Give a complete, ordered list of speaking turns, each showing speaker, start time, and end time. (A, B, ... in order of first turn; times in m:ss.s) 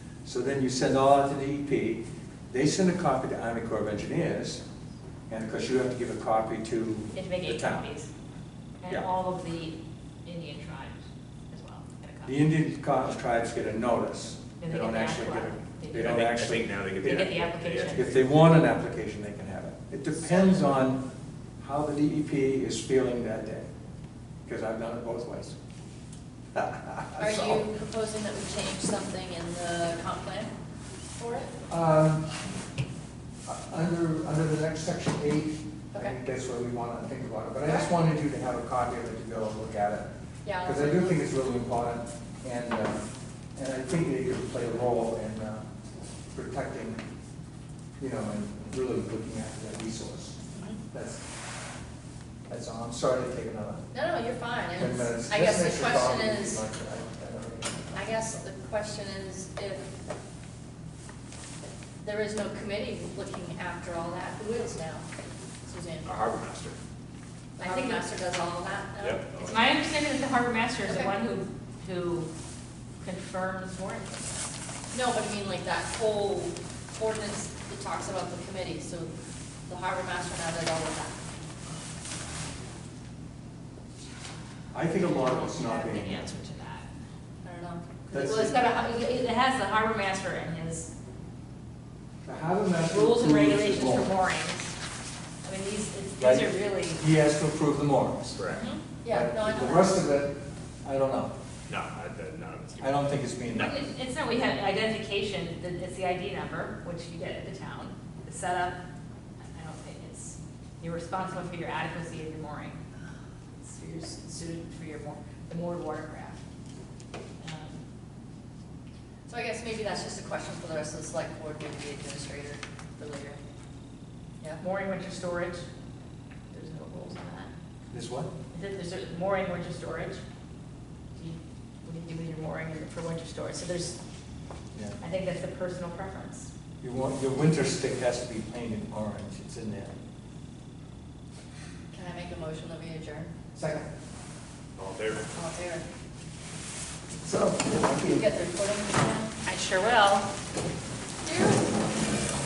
0:00.2-0:04.6 A
0:05.3-0:07.9 A
0:07.1-0:08.1 B
0:08.8-0:12.4 B
0:12.2-0:17.2 A
0:14.6-0:18.1 B
0:15.9-0:18.2 C
0:17.9-0:21.0 A
0:21.6-0:23.7 A
0:24.4-0:25.6 A
0:26.5-0:27.6 A
0:27.2-0:30.5 D
0:31.2-0:31.5 D
0:31.7-0:32.3 A
0:33.4-0:40.1 A
0:35.9-0:36.2 D
0:37.6-0:37.9 D
0:40.4-0:41.2 D
0:40.6-0:43.0 A
0:43.6-0:45.7 A
0:46.3-0:47.0 A
0:48.0-0:51.2 A
0:50.5-0:50.8 D
0:52.5-0:53.9 A
0:53.9-0:56.6 D
0:54.8-0:58.0 A
0:57.9-0:59.8 D
1:02.0-1:05.1 D
1:05.6-1:06.3 D
1:06.0-1:06.8 C
1:07.6-1:09.3 D
1:07.6-1:08.0 B
1:09.0-1:09.6 C
1:09.4-1:12.3 B
1:10.8-1:11.1 D
1:13.0-1:14.2 B
1:14.9-1:19.1 D
1:19.7-1:21.2 D
1:24.7-1:26.3 A
1:24.8-1:26.9 B
1:27.4-1:28.5 D
1:28.1-1:28.6 A
1:28.1-1:30.9 B
1:32.2-1:34.1 A
1:32.8-1:34.7 B
1:35.4-1:37.0 B
1:36.2-1:38.4 A
1:38.3-1:38.6 C
1:38.5-1:40.0 D
1:39.1-1:41.3 A
1:41.7-1:43.2 C
1:42.8-1:43.9 A
1:43.5-1:48.8 B
1:49.5-1:52.8 B
1:53.6-1:56.4 B
1:57.4-1:57.8 B
1:59.3-2:03.4 D
2:04.6-2:05.6 B
2:06.5-2:07.5 B
2:07.9-2:08.3 A
2:08.5-2:10.2 B
2:11.1-2:14.0 B
2:15.0-2:16.5 B
2:16.8-2:19.9 A
2:21.9-2:23.3 D
2:23.5-2:23.9 A
2:24.8-2:25.2 C
2:25.3-2:25.8 D
2:27.2-2:28.3 A
2:28.1-2:29.3 D
2:29.4-2:30.3 B
2:31.2-2:31.7 D